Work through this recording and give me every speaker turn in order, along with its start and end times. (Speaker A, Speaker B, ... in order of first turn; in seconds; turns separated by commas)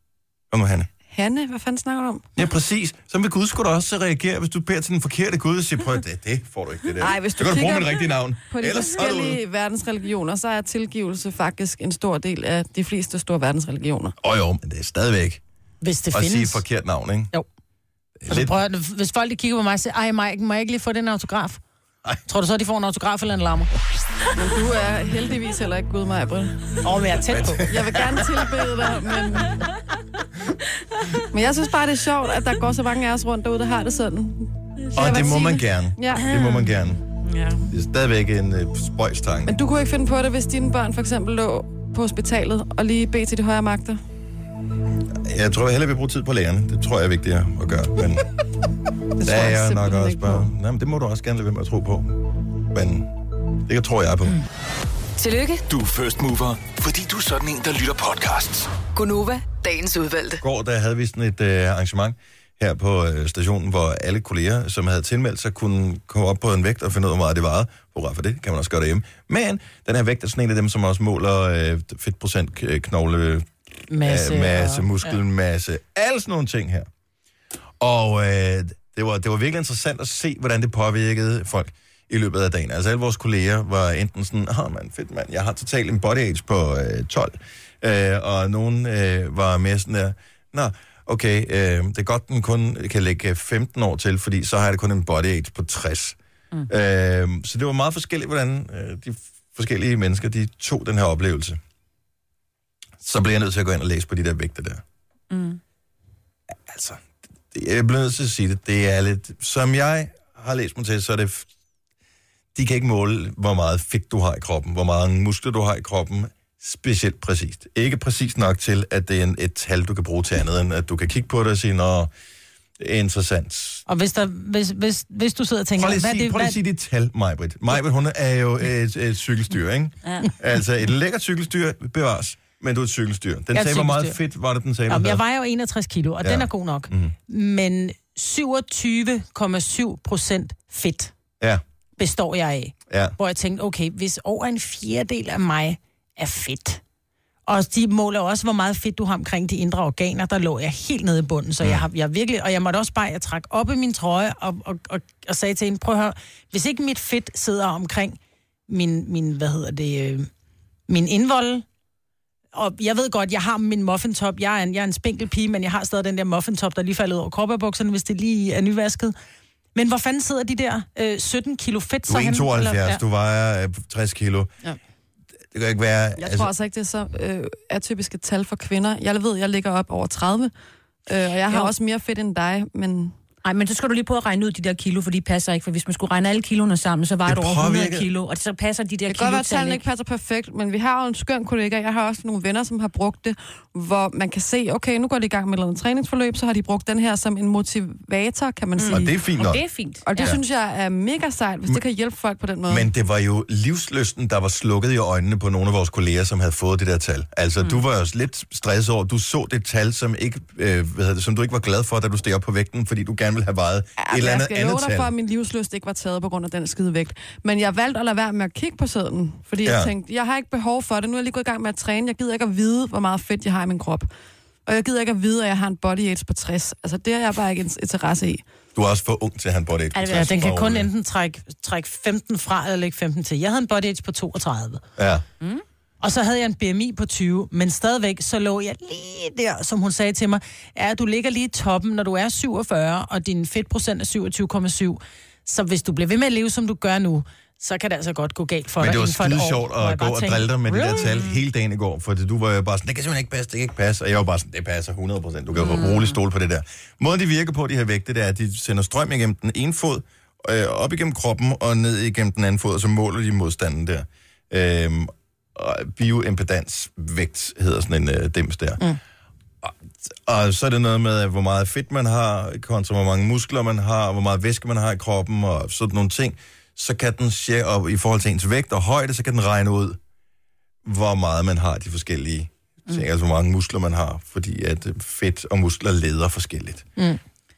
Speaker A: 0.5-0.9, Speaker B: 1.1-2.3, Speaker A: 2.4-9.4, Speaker B: 7.0-14.1, Speaker A: 14.2-15.4, Speaker C: 15.8-16.6, Speaker A: 16.1-17.3, Speaker A: 18.2-18.6, Speaker C: 18.3-21.6, Speaker C: 22.3-23.7, Speaker B: 24.3-26.6, Speaker C: 26.8-27.7, Speaker A: 27.3-28.4, Speaker B: 27.7-29.6, Speaker B: 31.3-36.3, Speaker A: 34.9-37.0, Speaker D: 36.1-36.7, Speaker D: 37.2-37.6, Speaker A: 37.7-39.6, Speaker B: 39.5-44.0, Speaker A: 45.1-48.2, Speaker B: 49.2-50.5, Speaker A: 49.2-52.2, Speaker A: 52.7-53.1, Speaker A: 53.6-54.4, Speaker E: 55.2-55.6, Speaker F: 55.7-58.7, Speaker E: 58.9-60.4, Speaker A: 60.4-76.9, Speaker C: 73.9-75.1, Speaker A: 77.8-96.2, Speaker A: 96.7-101.6, Speaker A: 103.0-104.8, Speaker D: 105.3-105.6, Speaker A: 106.5-111.5, Speaker A: 112.5-122.1, Speaker A: 122.8-123.8, Speaker C: 123.9-126.6, Speaker A: 125.8-135.2, Speaker D: 130.0-130.3, Speaker C: 133.5-134.2, Speaker C: 134.9-141.1, Speaker A: 136.2-137.1, Speaker C: 142.0-146.8, Speaker A: 142.9-143.1, Speaker C: 147.4-160.3, Speaker C: 160.9-161.6, Speaker C: 162.5-169.1, Speaker C: 169.7-173.0, Speaker A: 172.1-174.5, Speaker A: 175.5-176.5, Speaker B: 176.2-180.5, Speaker B: 181.1-183.1, Speaker D: 183.4-189.9, Speaker A: 187.2-188.1, Speaker B: 189.1-199.2, Speaker D: 198.8-200.4, Speaker A: 198.9-200.4, Speaker B: 200.1-202.9, Speaker A: 202.7-215.1, Speaker B: 214.0-224.1, Speaker A: 219.6-219.9, Speaker B: 224.7-228.4, Speaker A: 228.7-230.9, Speaker C: 229.9-234.8, Speaker A: 235.0-235.2, Speaker C: 236.0-251.1, Speaker A: 248.8-268.8, Speaker D: 251.0-251.4, Speaker D: 255.5-256.2, Speaker A: 269.6-280.0, Speaker A: 280.8-286.9